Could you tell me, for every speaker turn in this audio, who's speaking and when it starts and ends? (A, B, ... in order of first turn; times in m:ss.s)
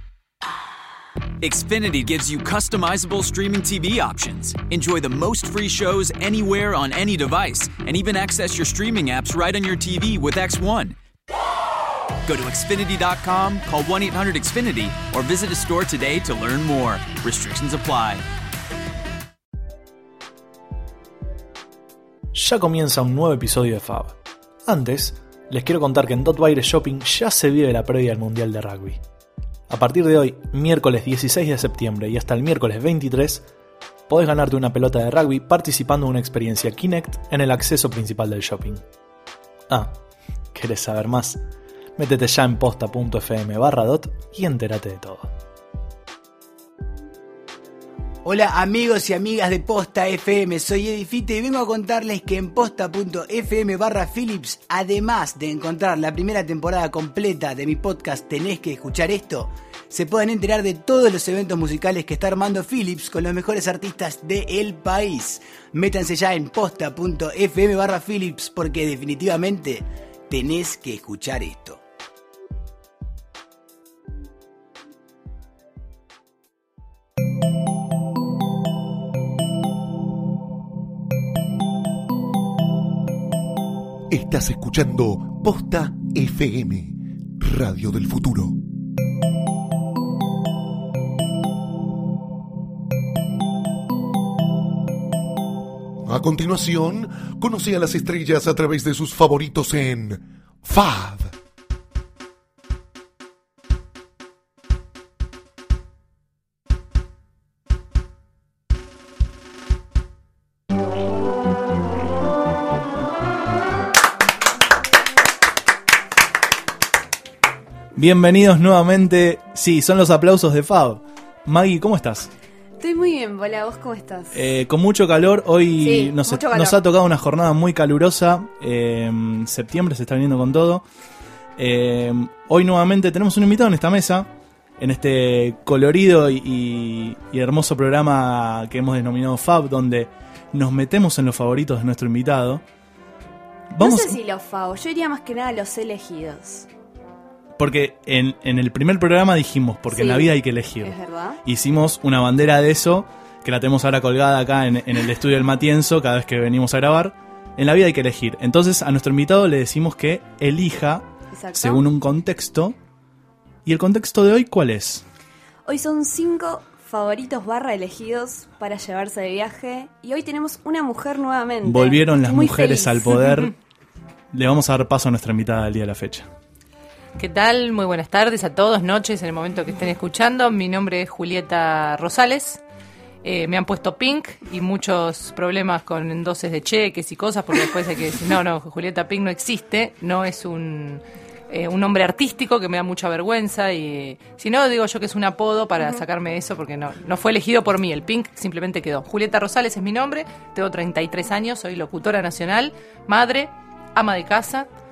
0:01.4-0:11.0 A
0:12.2-0:18.2 A
0:22.3-0:29.0 B
0:29.7-0:33.4 B
0:34.1-0:38.8 B
0:39.7-0:40.0 B
0:40.5-0:41.4 B
0:42.0-0:45.3 B
0:48.2-1:11.8 C
1:24.1-1:28.6 D
1:36.0-1:41.3 D
1:57.9-2:02.3 B
2:02.8-2:04.5 E
2:04.3-2:10.8 B
2:05.8-2:06.8 E
2:11.6-2:22.6 B
2:23.7-2:24.2 B
2:23.8-2:26.7 E
2:27.6-2:42.8 B
2:29.9-2:31.4 E
2:41.3-2:41.8 E
2:43.6-2:45.0 B
2:45.6-2:53.3 E
2:51.6-2:53.5 B
2:54.3-2:56.3 B
2:57.2-3:02.6 F
3:03.2-3:24.7 F